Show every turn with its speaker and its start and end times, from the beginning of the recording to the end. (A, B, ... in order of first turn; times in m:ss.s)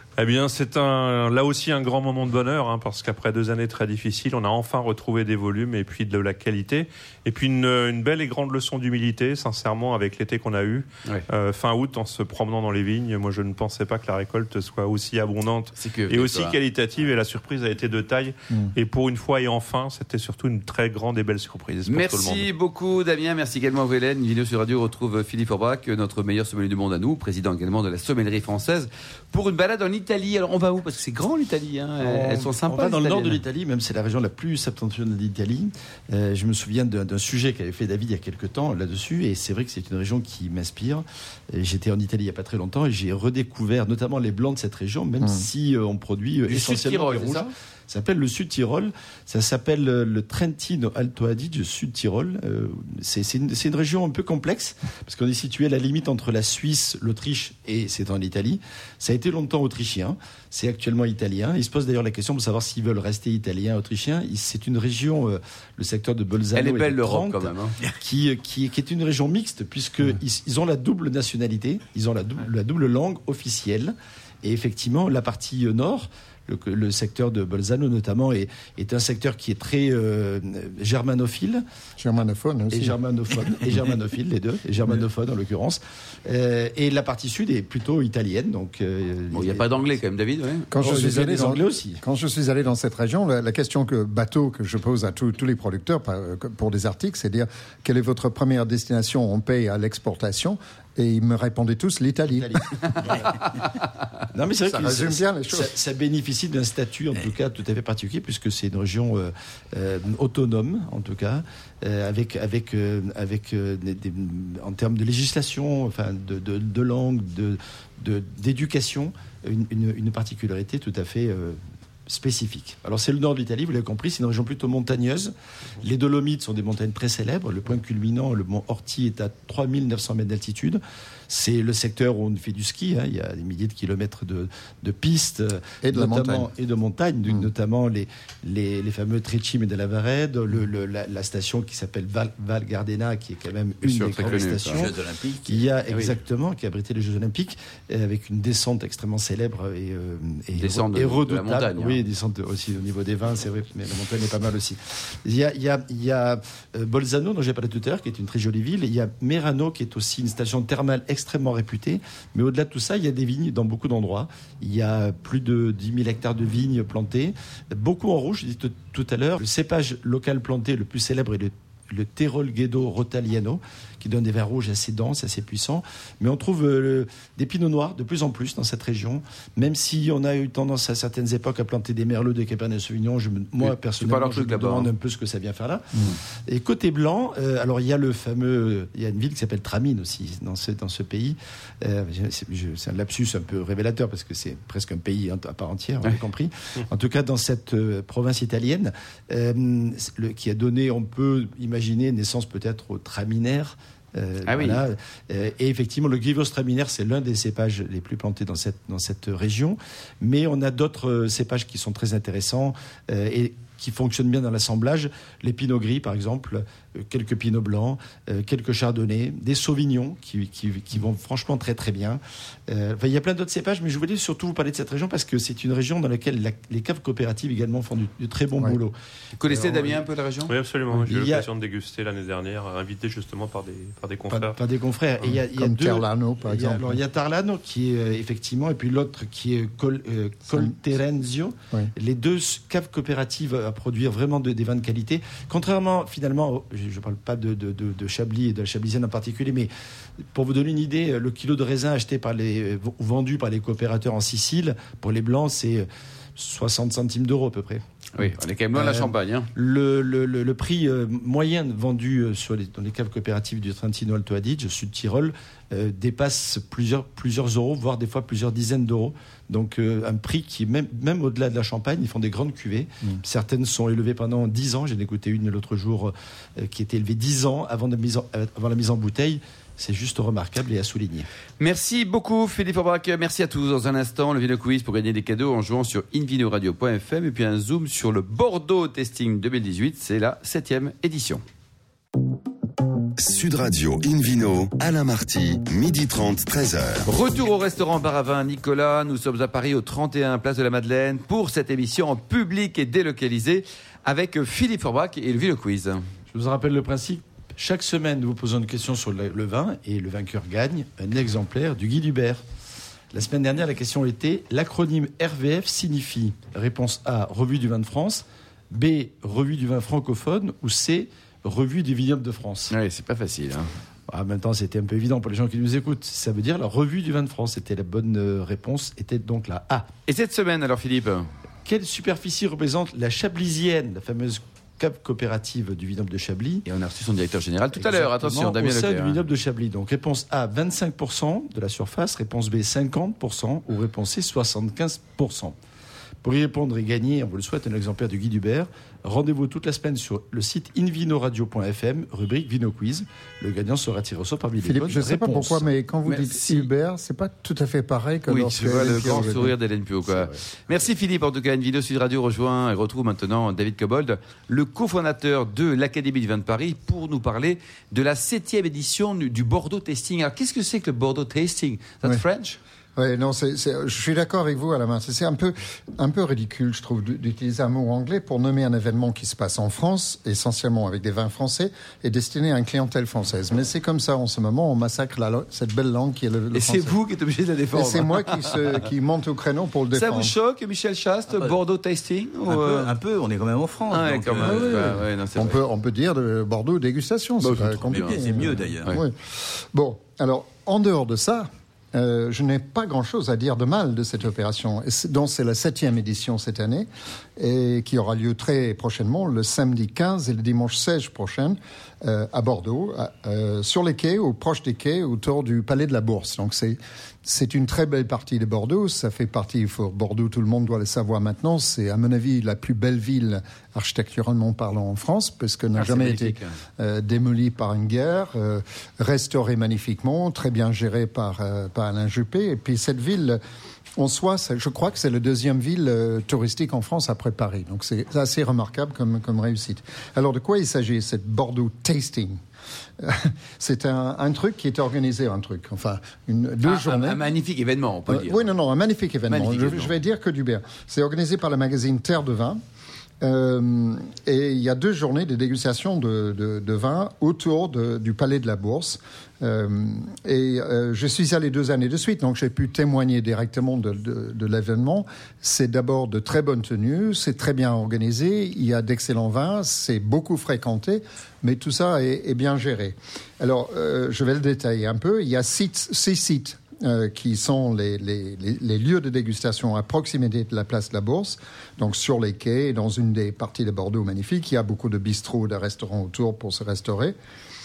0:00.2-0:22.5 A
0:15.8-0:16.6 B
0:21.9-0:33.4 B
0:32.0-1:21.6 C
0:46.5-0:47.5 B
1:06.5-1:07.8 B
1:22.0-1:23.0 D
1:22.7-1:29.7 C
1:29.3-1:30.7 B
1:30.7-1:42.6 D
1:30.8-1:32.0 C
1:42.3-1:43.3 C
1:44.3-3:50.0 C
1:44.7-1:45.7 D
2:15.8-2:16.5 D
2:23.8-2:24.8 B
2:24.2-2:25.7 E
2:30.6-2:32.0 B
3:03.6-3:04.9 B
3:24.4-3:24.8 B
3:49.4-3:50.5 B
3:50.5-3:54.6 A
3:50.9-3:51.5 C
3:54.3-4:09.7 C
3:55.2-3:57.0 D
4:10.3-4:17.8 C
4:18.1-4:19.5 B
4:18.7-4:41.3 C
4:41.6-4:51.4 B
4:53.2-4:57.1 F
4:57.0-5:06.0 B
5:06.3-5:12.4 C
5:13.1-5:22.7 C
5:22.7-5:23.7 B
5:24.1-5:29.9 C
5:30.1-5:31.3 B
5:31.6-5:36.6 C
5:36.6-5:39.2 B
5:37.7-5:45.5 C
5:46.2-5:55.6 C
5:54.6-5:59.5 D
5:56.0-5:56.7 B
5:58.3-6:12.6 B
5:59.0-5:59.4 C
6:00.0-6:00.4 C
6:13.0-6:26.9 D
6:26.5-6:28.8 B
6:27.7-6:30.3 D
6:29.9-6:32.9 B
6:32.5-6:34.9 E
6:33.9-6:35.6 B
6:34.4-7:13.4 D
6:37.4-6:38.2 B
6:37.6-6:39.0 E
7:05.8-7:06.4 B
7:14.0-7:22.4 D
7:23.0-7:27.2 D
7:26.6-7:28.5 B
7:28.1-7:32.6 D
7:29.3-7:29.9 B
7:33.2-8:07.2 D